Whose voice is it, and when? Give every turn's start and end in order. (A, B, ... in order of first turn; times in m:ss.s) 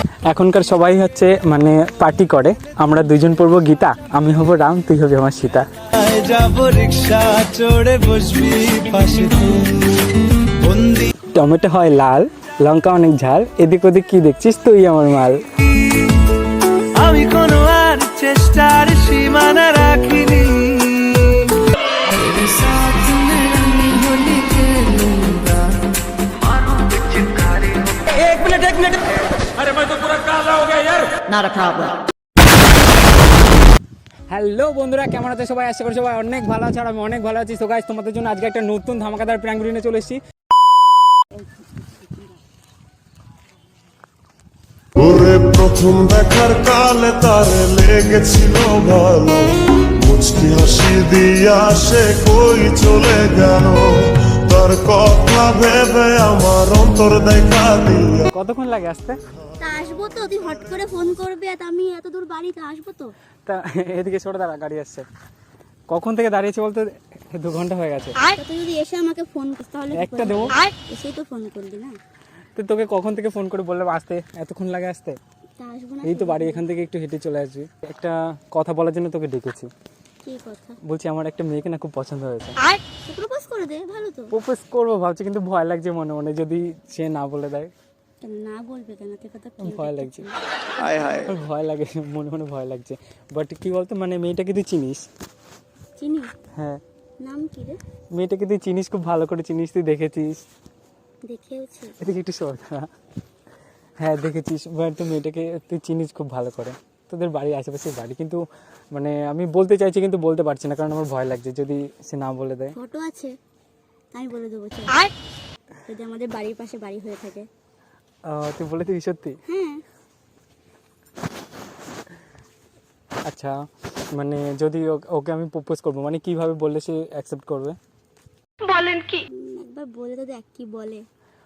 0:00.3-0:05.7 A
0:06.0-0:10.1 B
0:10.6-0:11.1 B
0:11.3-0:15.4 A
0:17.0-0:21.5 B
0:22.1-0:25.7 C
0:23.9-0:24.7 B
0:27.4-0:28.9 C
0:30.4-0:32.0 C
0:34.3-0:40.2 A
0:41.8-0:42.2 D
0:45.0-0:58.3 E
0:58.3-0:59.2 A
0:59.6-1:03.1 D
1:03.5-1:05.1 A
1:05.9-1:08.2 A
1:08.3-1:12.0 D
1:09.9-1:10.6 A
1:12.6-1:15.2 A
1:15.6-1:16.6 D
1:16.0-1:19.7 A
1:20.2-1:20.8 D
1:20.8-1:22.6 A
1:22.9-1:24.3 D
1:24.3-1:27.7 A
1:28.2-1:30.4 D
1:29.6-1:30.3 A
1:31.1-1:35.1 A
1:36.0-1:36.3 D
1:36.5-1:36.8 A
1:37.2-1:37.8 D
1:38.1-1:40.4 A
1:41.3-1:42.0 D
1:42.0-1:42.9 A
1:44.0-1:52.8 A
1:52.7-1:53.4 D
1:54.1-1:55.1 D
1:55.8-1:57.5 D
1:58.3-1:59.4 A
1:59.5-1:59.8 D
2:03.2-2:03.5 A
2:04.1-2:07.8 A
2:08.7-2:11.0 D